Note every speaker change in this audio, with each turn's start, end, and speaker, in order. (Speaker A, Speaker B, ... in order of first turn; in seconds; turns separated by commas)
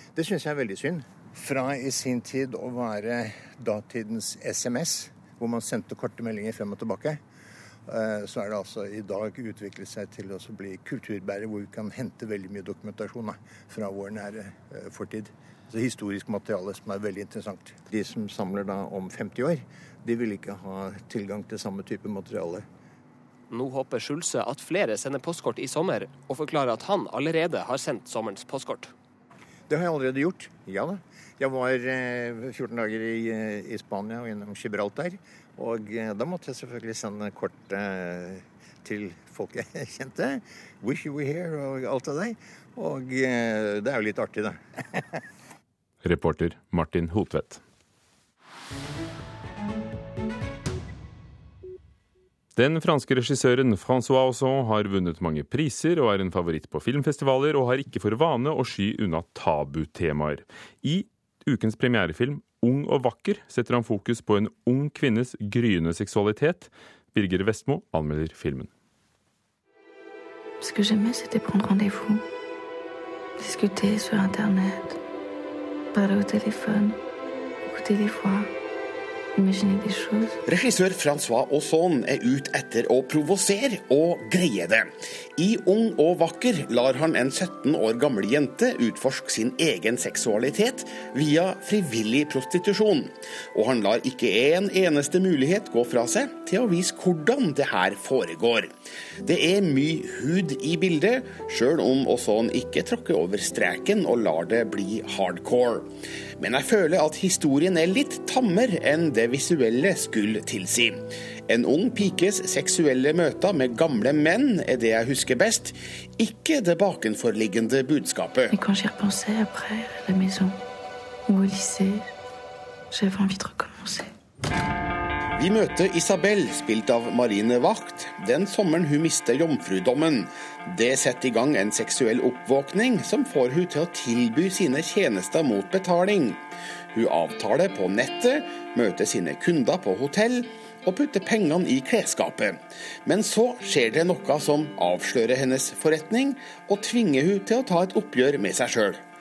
Speaker A: 0.1-7.2, Speaker A: 7.9-22.6, Speaker B: 23.5-28.9, Speaker A: 29.7-45.2, Speaker C: 46.0-47.6, Speaker C: 52.5-68.7, Speaker D: 70.6-72.2, Speaker D: 73.4-75.0, Speaker D: 75.9-77.0, Speaker D: 77.6-78.5, Speaker D: 79.3-80.4, Speaker E: 80.5-98.7, Speaker E: 99.2-118.5, Speaker D: 118.5-120.6, Speaker D: 121.3-122.1, Speaker D: 122.9-124.1, Speaker E: 125.3-149.0